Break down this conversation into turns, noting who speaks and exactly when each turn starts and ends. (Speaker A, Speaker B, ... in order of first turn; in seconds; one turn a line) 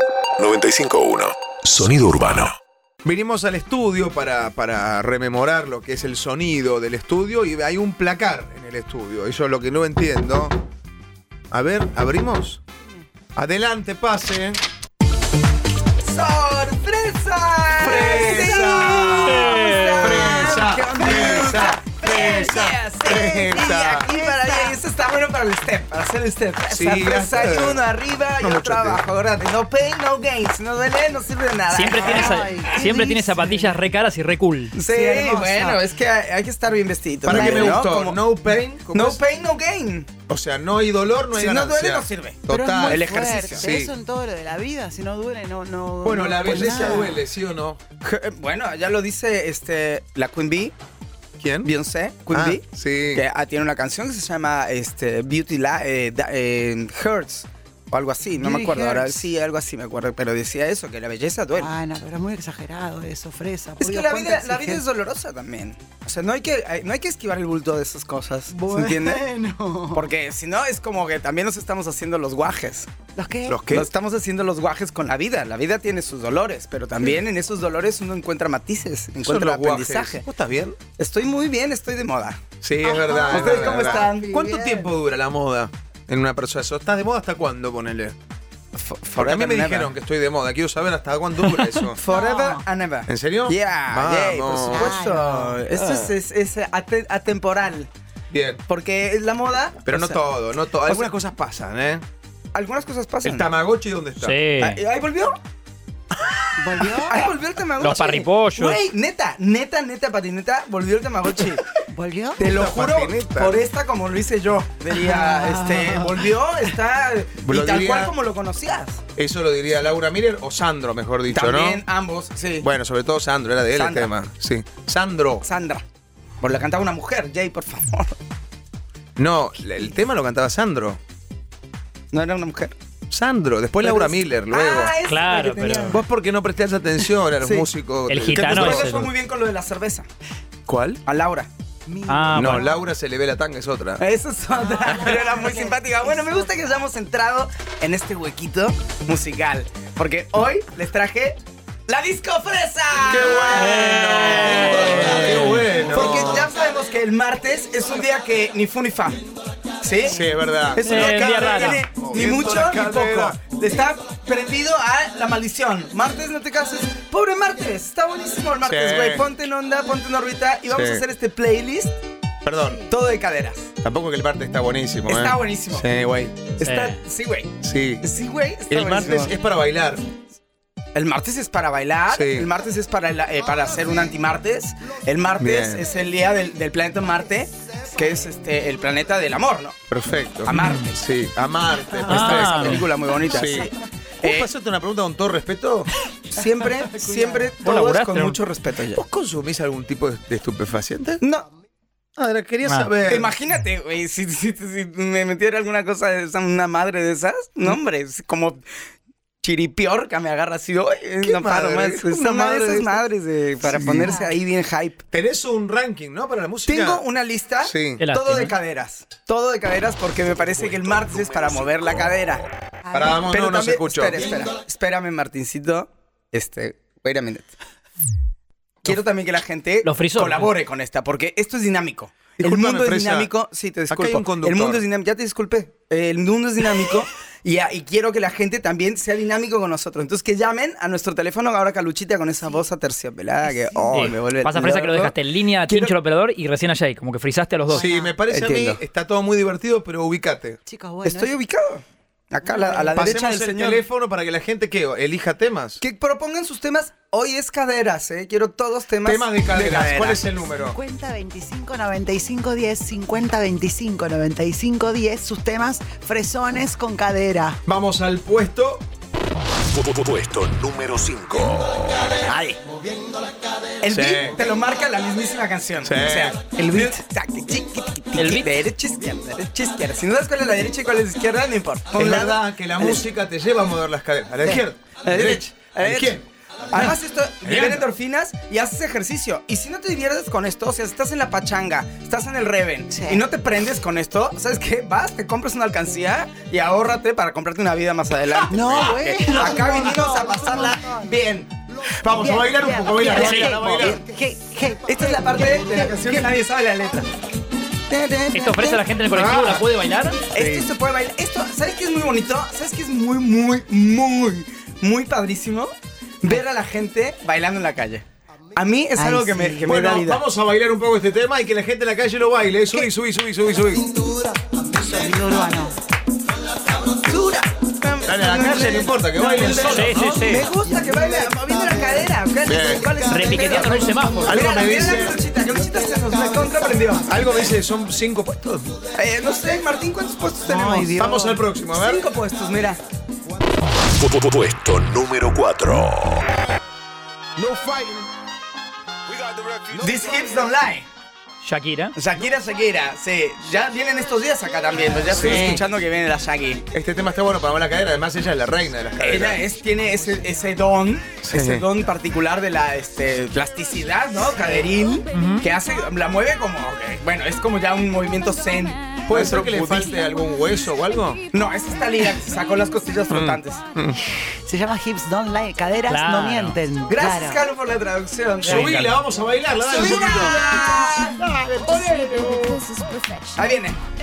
Speaker A: 0.4-2.6
Speaker B: 3.0-10.6
Speaker B: 11.5-12.6
Speaker B: 13.3-14.6
Speaker C: 16.0-32.7
Speaker B: 17.8-24.1
Speaker D: 17.9-19.1
Speaker E: 19.1-20.4
Speaker D: 20.6-21.6
Speaker D: 23.9-24.8
Speaker B: 26.6-27.8
Speaker B: 28.4-29.0
Speaker E: 31.7-34.7
Speaker D: 32.0-33.8
Speaker C: 34.7-38.2
Speaker D: 34.8-35.9
Speaker B: 37.2-39.2
Speaker D: 37.3-37.8
Speaker C: 38.9-40.1
Speaker B: 40.3-43.9
Speaker C: 41.3-43.7
Speaker D: 42.5-47.2
Speaker B: 46.0-47.8
Speaker C: 46.4-47.2
Speaker C: 48.0-50.7
Speaker B: 51.4-51.7
Speaker C: 51.6-61.7
Speaker B: 52.3-53.2
Speaker D: 58.3-59.3
Speaker D: 61.5-64.8
Speaker C: 63.8-69.2
Speaker D: 68.5-70.1
Speaker C: 69.9-72.9
Speaker D: 73.2-73.6
Speaker B: 73.5-73.9
Speaker C: 73.7-80.2
Speaker B: 79.2-80.8
Speaker C: 81.0-82.4
Speaker B: 82.6-88.1
Speaker D: 82.8-84.4
Speaker C: 83.3-84.9
Speaker C: 88.7-89.9
Speaker B: 89.2-92.0
Speaker C: 91.9-97.9
Speaker D: 92.1-92.6
Speaker B: 93.1-94.9
Speaker D: 94.7-95.6
Speaker B: 95.8-96.1
Speaker B: 98.3-98.6
Speaker C: 98.7-100.2
Speaker B: 99.8-102.0
Speaker C: 100.8-101.1
Speaker C: 102.5-103.5
Speaker B: 103.2-104.4
Speaker E: 104.2-104.8
Speaker C: 104.6-105.4
Speaker D: 106.6-107.3
Speaker C: 107.0-111.7
Speaker E: 107.8-108.8
Speaker D: 111.9-112.5
Speaker C: 112.4-119.0
Speaker B: 112.4-113.6
Speaker D: 114.9-116.3
Speaker B: 117.4-118.1
Speaker B: 119.2-121.8
Speaker C: 121.3-122.7
Speaker B: 122.6-125.5
Speaker C: 123.7-124.1
Speaker C: 125.4-125.8
Speaker C: 126.4-128.2
Speaker B: 129.2-131.0
Speaker C: 132.1-132.7
Speaker B: 133.1-134.9
Speaker C: 133.8-136.0
Speaker E: 135.1-136.0
Speaker B: 135.9-138.9
Speaker C: 137.4-137.7
Speaker E: 138.1-139.1
Speaker C: 138.3-140.1
Speaker B: 140.7-141.0
Speaker C: 141.0-141.5
Speaker D: 141.9-142.8
Speaker E: 142.1-142.7
Speaker B: 142.3-144.0
Speaker C: 144.0-159.3
Speaker D: 144.5-146.7
Speaker B: 153.0-156.5
Speaker E: 153.5-155.7
Speaker C: 159.8-171.9
Speaker B: 160.0-163.4
Speaker E: 160.8-161.8
Speaker B: 168.6-169.3
Speaker B: 170.7-171.0
Speaker B: 172.4-172.8
Speaker D: 172.6-172.8
Speaker C: 172.8-173.7
Speaker B: 173.8-176.3
Speaker C: 175.1-179.3
Speaker E: 176.6-177.0
Speaker B: 177.6-178.0
Speaker B: 178.7-180.0
Speaker E: 178.7-179.1
Speaker C: 180.9-189.8
Speaker B: 182.1-182.5
Speaker B: 185.4-185.8
Speaker B: 189.9-193.7
Speaker C: 190.4-190.9
Speaker E: 190.5-190.9
Speaker C: 192.0-194.5
Speaker E: 192.1-192.8
Speaker B: 194.2-195.9
Speaker C: 196.3-199.0
Speaker D: 196.6-197.5
Speaker E: 197.6-198.4
Speaker B: 198.9-201.2
Speaker C: 201.2-201.5
Speaker B: 202.2-203.3
Speaker E: 202.6-202.9
Speaker C: 203.1-208.6
Speaker C: 209.4-215.0
Speaker B: 211.2-213.0
Speaker B: 213.6-214.1
Speaker D: 213.8-214.3
Speaker B: 215.1-217.0
Speaker C: 216.7-222.4
Speaker B: 217.6-218.0
Speaker E: 218.0-218.5
Speaker D: 222.9-223.2
Speaker B: 222.9-224.3
Speaker C: 223.1-227.5
Speaker C: 228.8-245.1
Speaker E: 229.8-230.5
Speaker B: 232.4-233.3
Speaker B: 233.9-234.8
Speaker D: 242.4-242.7
Speaker D: 243.4-244.1
Speaker E: 243.9-247.9
Speaker C: 245.7-245.9
Speaker D: 247.7-248.2
Speaker B: 247.7-250.6
Speaker C: 248.3-248.8
Speaker D: 250.7-251.3
Speaker C: 251.0-253.8
Speaker D: 252.4-253.1
Speaker B: 252.9-255.8
Speaker C: 255.8-260.3
Speaker B: 259.0-260.8
Speaker D: 260.6-267.6
Speaker B: 267.6-268.8
Speaker A: 269.7-272.2
Speaker B: 272.2-272.6
Speaker C: 273.8-283.0
Speaker B: 273.9-274.3
Speaker B: 275.8-276.4
Speaker D: 276.6-277.0
Speaker E: 278.1-278.7
Speaker B: 281.9-287.8
Speaker C: 285.0-301.5
Speaker D: 292.9-293.2
Speaker D: 298.5-301.1
Speaker B: 302.0-304.0
Speaker D: 302.1-306.3
Speaker E: 303.1-303.7
Speaker C: 304.8-307.1
Speaker C: 307.9-308.8
Speaker E: 308.3-310.2
Speaker B: 309.1-309.6
Speaker C: 310.3-315.7
Speaker B: 310.4-310.7
Speaker C: 316.2-320.2
Speaker D: 318.9-319.7
Speaker B: 319.7-323.9
Speaker D: 324.7-325.8
Speaker C: 326.9-337.1
Speaker B: 328.0-330.3
Speaker E: 329.5-330.5
Speaker B: 332.4-332.9
Speaker E: 333.1-334.4
Speaker B: 334.2-335.2
Speaker B: 337.1-338.7
Speaker C: 338.9-341.0
Speaker D: 340.4-341.4
Speaker B: 340.9-342.0
Speaker C: 341.7-342.8
Speaker A: 344.0-346.2
Speaker A: 349.1-349.7
Speaker C: 349.7-350.9
Speaker E: 351.4-351.9
Speaker C: 351.9-356.6
Speaker B: 355.1-355.6
Speaker E: 355.2-355.6
Speaker B: 356.7-359.4
Speaker C: 359.0-369.9
Speaker B: 361.2-361.6
Speaker E: 365.1-365.4
Speaker B: 369.1-371.2
Speaker C: 371.3-373.6
Speaker B: 373.1-374.0
Speaker D: 374.2-377.5
Speaker E: 375.9-376.6
Speaker C: 376.9-378.9
Speaker B: 378.4-382.7
Speaker E: 378.4-379.0
Speaker C: 379.6-381.2
Speaker C: 383.3-383.8